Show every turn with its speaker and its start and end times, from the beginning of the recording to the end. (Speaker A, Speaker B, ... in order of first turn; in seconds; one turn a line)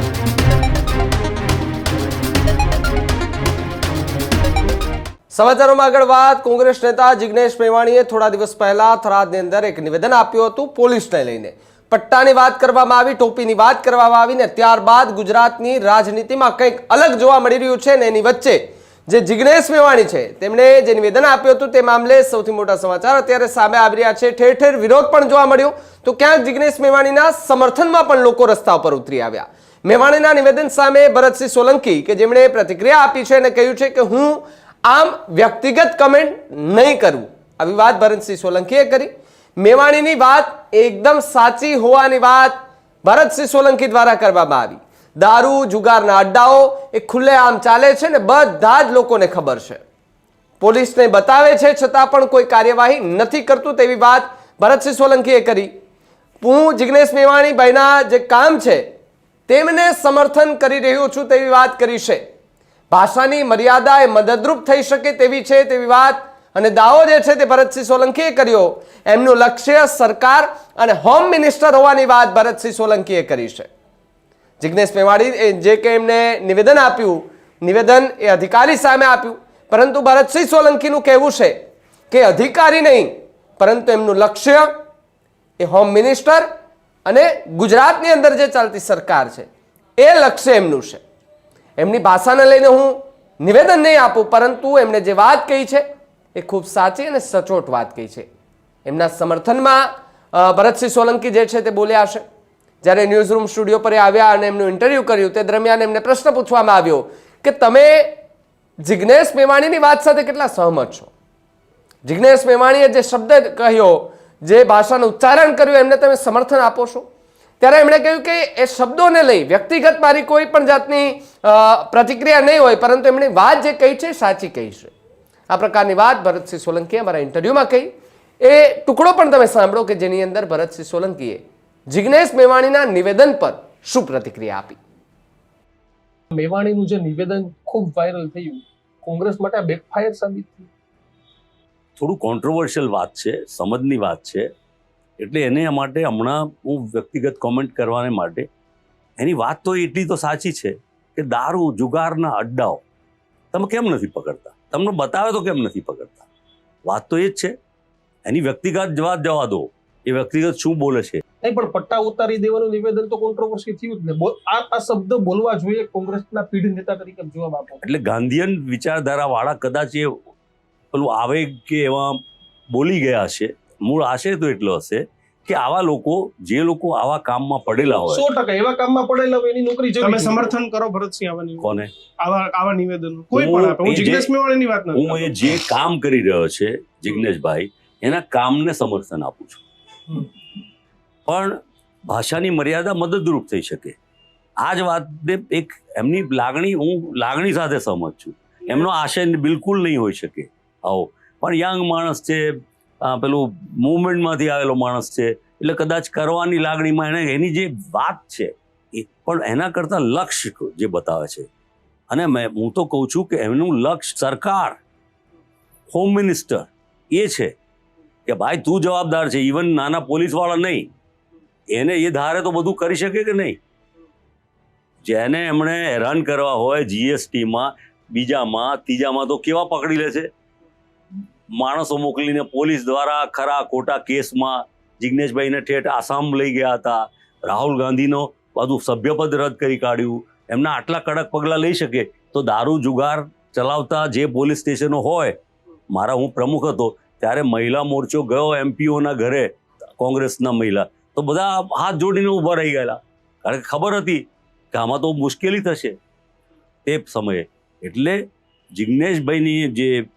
Speaker A: 5.3-49.8
Speaker A: 50.6-55.7
Speaker A: 56.4-58.8
Speaker A: 59.5-62.2
Speaker A: 62.9-73.7
Speaker A: 74.6-81.5
Speaker A: 82.1-84.7
Speaker A: 85.6-86.5
Speaker A: 87.1-91.0
Speaker A: 91.8-95.8
Speaker A: 96.3-98.3
Speaker A: 98.9-102.2
Speaker A: 102.8-108.2
Speaker A: 108.8-111.1
Speaker A: 112.1-117.0
Speaker A: 117.6-124.9
Speaker A: 125.5-127.9
Speaker A: 128.4-134.8
Speaker B: 136.3-140.7
Speaker C: 142.0-144.4
Speaker C: 145.2-148.5
Speaker C: 149.2-152.8
Speaker C: 153.5-156.3
Speaker C: 156.9-157.5
Speaker C: 158.3-161.2
Speaker B: 161.4-167.8
Speaker C: 167.8-170.1
Speaker C: 170.9-172.2
Speaker C: 172.7-178.2
Speaker B: 177.9-180.5
Speaker D: 180.0-181.7
Speaker C: 181.6-181.9
Speaker D: 182.2-185.3
Speaker C: 183.3-184.3
Speaker C: 184.9-189.6
Speaker C: 191.3-191.6
Speaker C: 192.1-194.0
Speaker C: 194.6-202.4
Speaker C: 203.0-211.5
Speaker C: 212.1-214.8
Speaker C: 215.9-217.5
Speaker C: 218.3-220.9
Speaker C: 221.7-223.6
Speaker C: 225.0-230.3
Speaker C: 231.6-245.3
Speaker C: 245.9-256.0
Speaker C: 256.9-258.2
Speaker C: 258.8-260.0